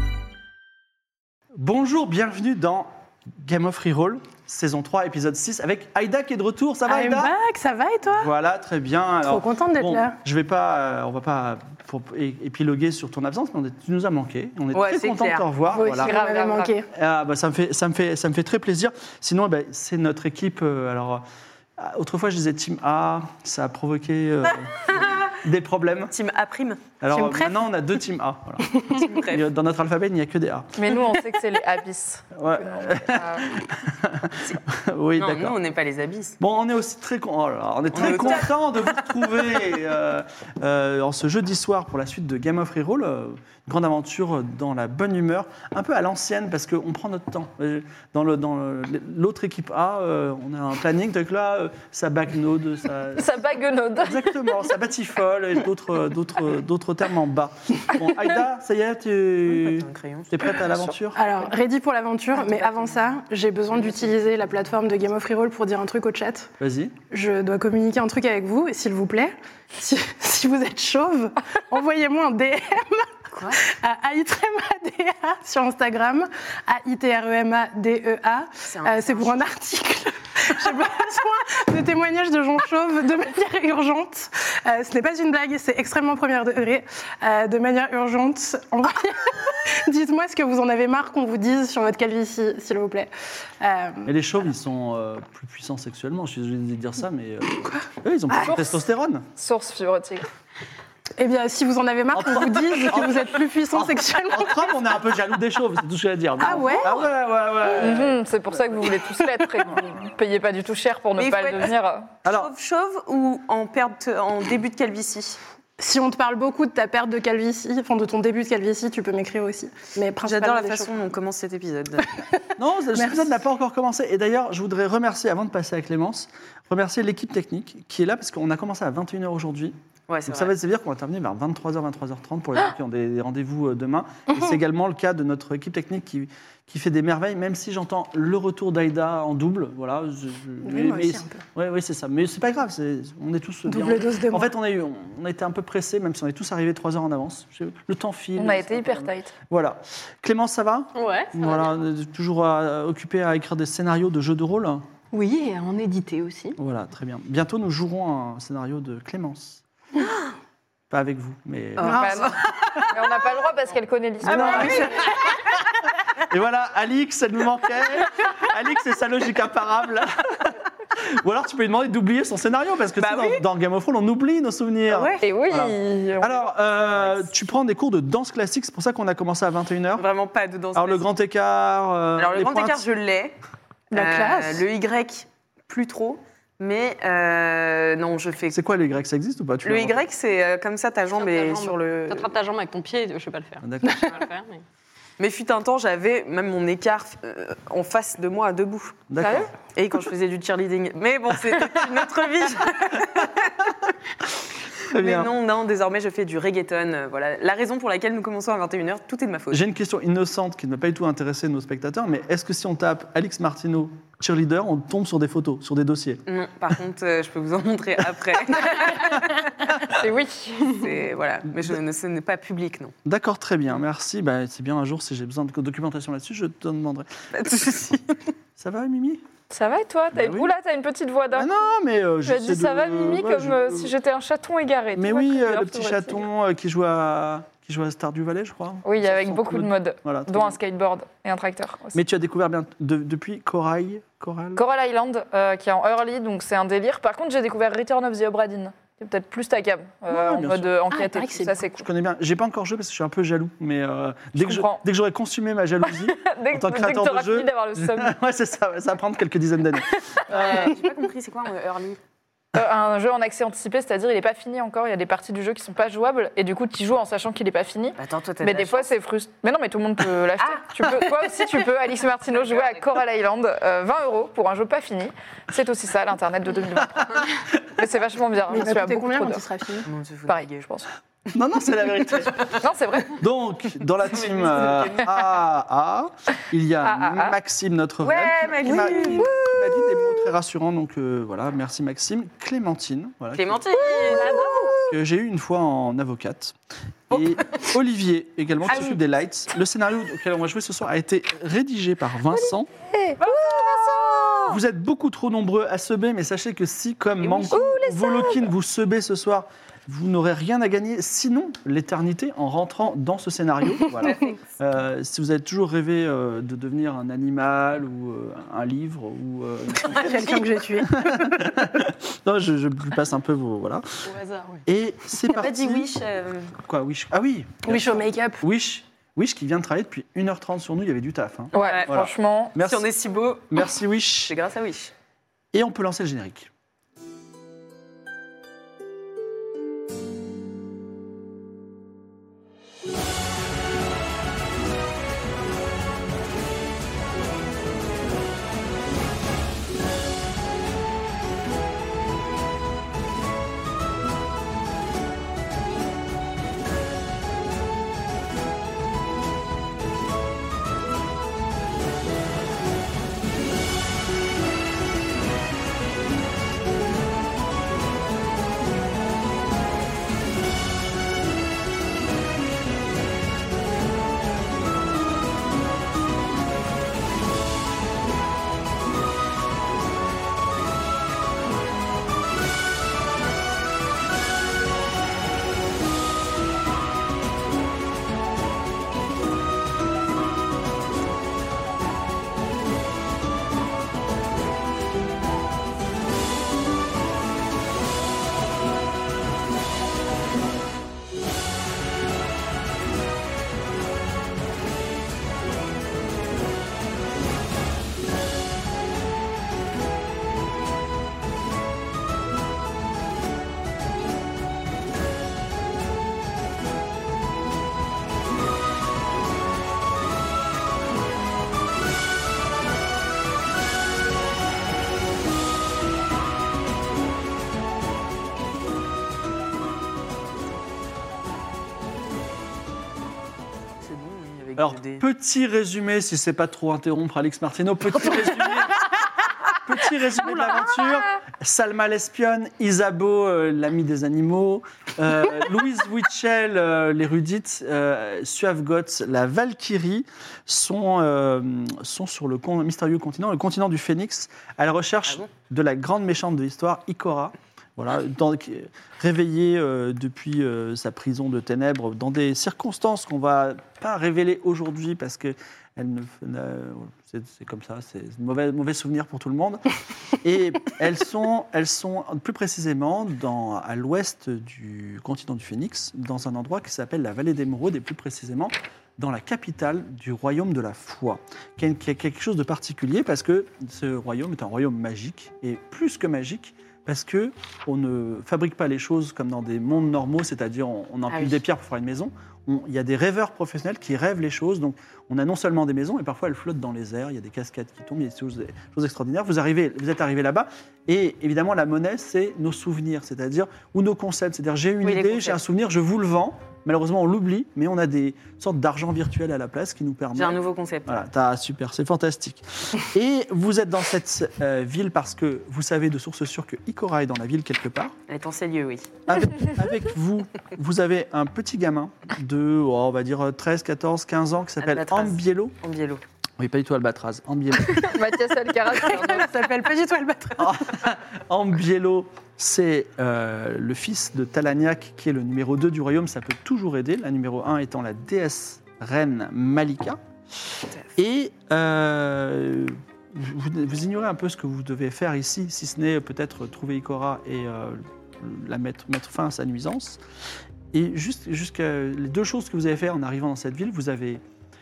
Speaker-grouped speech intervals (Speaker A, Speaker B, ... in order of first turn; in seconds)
Speaker A: 1.5-7.3, 8.1-16.1, 16.9-21.2, 21.8-26.1, 27.0-30.8, 32.3-35.6, 36.4-53.4, 54.0-61.2, 66.6-66.9, 94.0-99.2, 102.1-108.2, 109.6-109.9, 112.2-112.5, 122.6-129.7, 130.2-154.8, 156.6-159.6, 160.9-162.9, 164.2-165.5, 166.2-180.0, 180.7-182.8, 188.5-190.0, 193.6-194.2, 199.1-199.5, 204.9-205.3, 209.5-216.2, 223.0-227.1, 228.6-229.2, 230.1-230.5, 231.3-233.9, 234.9-240.6, 241.9-244.6, 250.1-250.7, 251.7-260.7, 281.3-294.2, 294.9-296.5, 297.1-302.7, 304.4-320.2, 320.8-324.1, 324.6-325.9, 326.6-332.9, 333.5-334.3, 335.5-336.5, 434.6-438.9, 439.5-469.6, 470.2-518.0, 519.0-525.5, 526.4-528.0, 530.4-540.0, 540.9-550.0, 550.7-554.2
Speaker B: 6.8-8.3, 9.2-10.2, 15.7-16.9, 27.1-27.7, 61.1-66.5, 67.1-94.1, 101.2-104.7, 106.4-107.1, 115.8-121.0, 122.9-123.3, 140.6-141.4, 143.7-144.5, 183.9-184.6, 250.9-251.6, 278.5-279.9, 319.8-321.1, 327.6-328.4, 528.8-530.6
Speaker C: 14.7-15.5, 26.1-26.8, 28.9-29.4, 35.2-36.4, 37.9-39.6, 59.5-60.3, 73.3-73.6, 78.7-79.3, 111.2-115.4, 120.2-122.2, 130.1-130.5, 164.3-165.3, 173.0-173.4, 174.9-175.2, 179.9-181.1, 182.2-183.4, 183.9-188.6, 189.6-192.3, 195.2-199.1, 199.6-203.7, 204.9-209.6, 216.3-219.9, 220.6-222.9, 227.3-228.3, 260.3-262.0, 268.0-268.9, 270.4-270.6, 279.8-280.6, 284.2-285.0, 288.0-289.3, 293.4-294.6, 297.1-297.6, 307.2-307.6, 314.0-314.4, 325.2-326.6, 331.5-331.9, 332.6-333.7, 334.2-334.9, 433.8-435.0, 491.1-491.4, 504.8-505.4, 510.1-511.0, 518.1-518.9, 524.6-526.0
Speaker D: 15.9-16.8, 30.8-33.5, 53.1-54.5, 98.5-98.7, 99.3-100.3, 107.7-112.1, 148.4-149.3, 161.8-164.7, 175.2-176.5, 199.2-199.5, 219.9-220.8, 229.5-231.5, 232.2-236.2, 238.8-242.0, 244.5-251.8, 254.3-254.8, 256.1-258.1, 262.5-279.4, 280.3-280.9, 282.6-283.2, 286.8-287.4, 289.2-290.0, 294.1-294.8, 302.3-304.6, 307.5-308.5, 331.5-332.6, 527.8-529.3
Speaker E: 150.9-151.7, 155.1-156.6, 191.2-194.6, 324.0-324.6